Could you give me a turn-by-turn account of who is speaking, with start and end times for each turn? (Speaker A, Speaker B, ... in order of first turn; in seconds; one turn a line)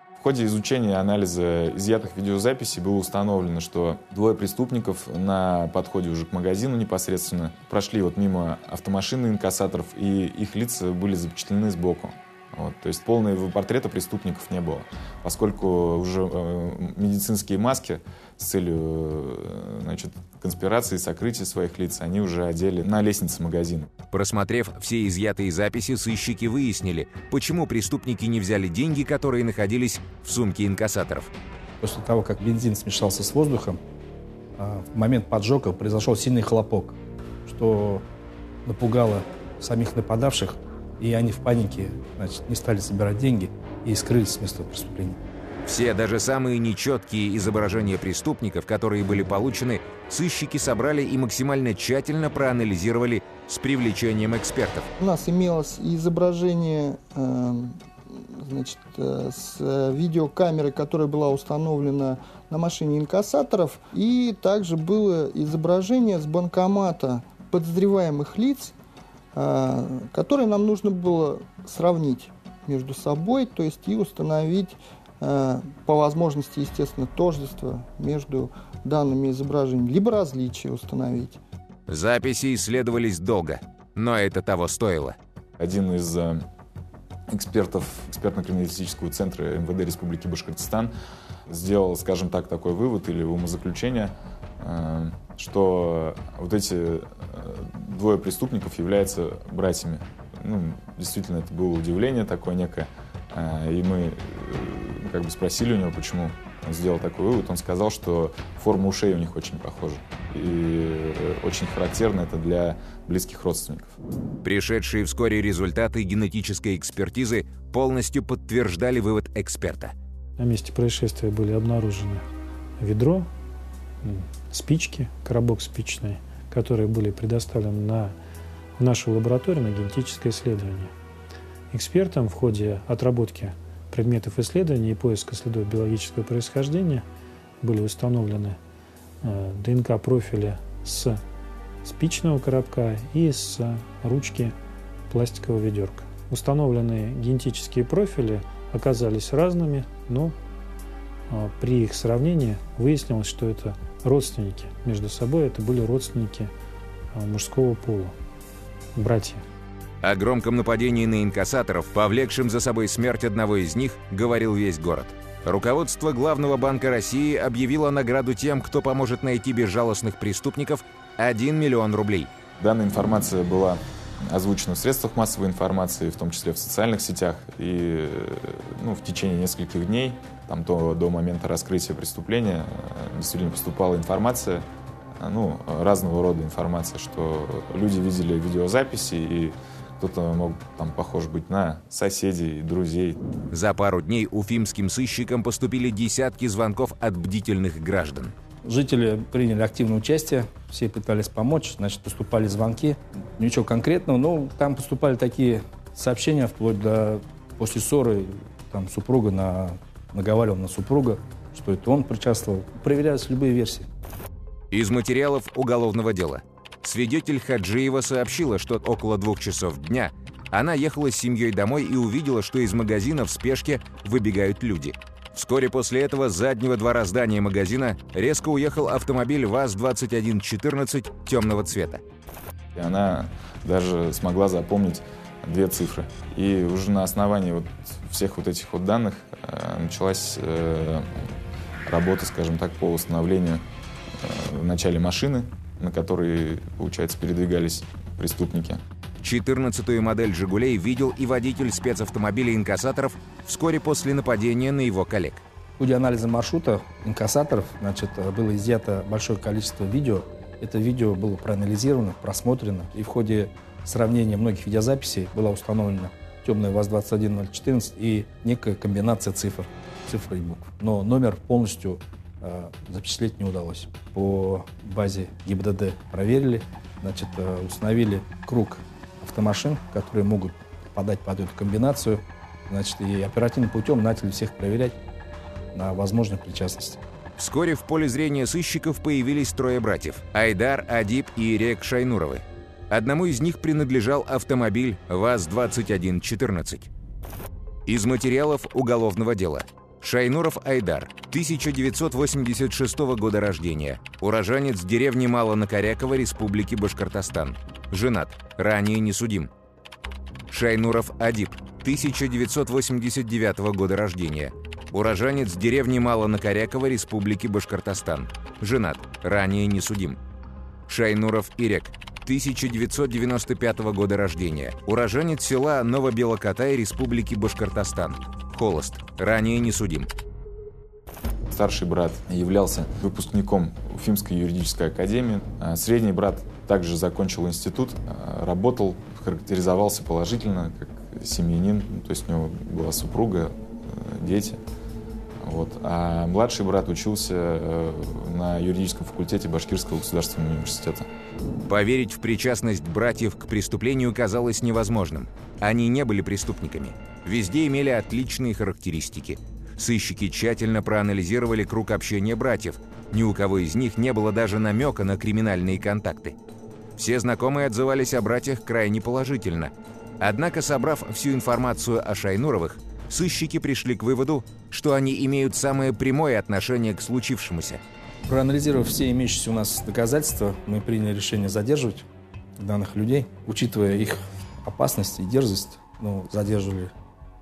Speaker A: 0.2-23.9
Speaker B: 24.1-31.3
Speaker C: 31.8-33.8
Speaker C: 34.6-38.0
Speaker C: 38.6-45.2
Speaker B: 45.6-54.9
Speaker D: 55.0-68.7
Speaker D: 69.3-81.4
Speaker B: 81.9-85.2
Speaker A: 85.6-86.4
Speaker A: 87.3-90.9
Speaker A: 91.5-113.9
Speaker B: 114.4-119.9
Speaker E: 120.4-122.2
Speaker E: 122.8-123.3
Speaker E: 124.0-128.2
Speaker E: 128.8-130.9
Speaker E: 131.7-137.1
Speaker E: 137.6-138.6
Speaker E: 139.2-141.2
Speaker E: 141.8-144.5
Speaker E: 145.1-150.3
Speaker E: 151.3-156.5
Speaker E: 157.1-158.2
Speaker E: 158.9-159.4
Speaker B: 160.0-172.3
Speaker A: 172.6-184.7
Speaker A: 185.2-193.2
Speaker B: 193.5-198.3
Speaker C: 198.6-213.9
Speaker B: 214.7-232.0
Speaker A: 232.7-241.2
Speaker A: 241.8-243.6
Speaker A: 244.2-248.8
Speaker B: 249.2-255.4
Speaker C: 255.8-285.0
Speaker C: 285.7-287.0
Speaker B: 287.4-296.9
Speaker B: 297.9-309.5
Speaker B: 310.5-320.2
Speaker B: 320.9-330.1
Speaker A: 331.5-344.6
Speaker A: 345.4-351.1
Speaker B: 351.6-366.4
Speaker B: 367.0-377.8
Speaker C: 378.3-382.1
Speaker C: 382.6-386.9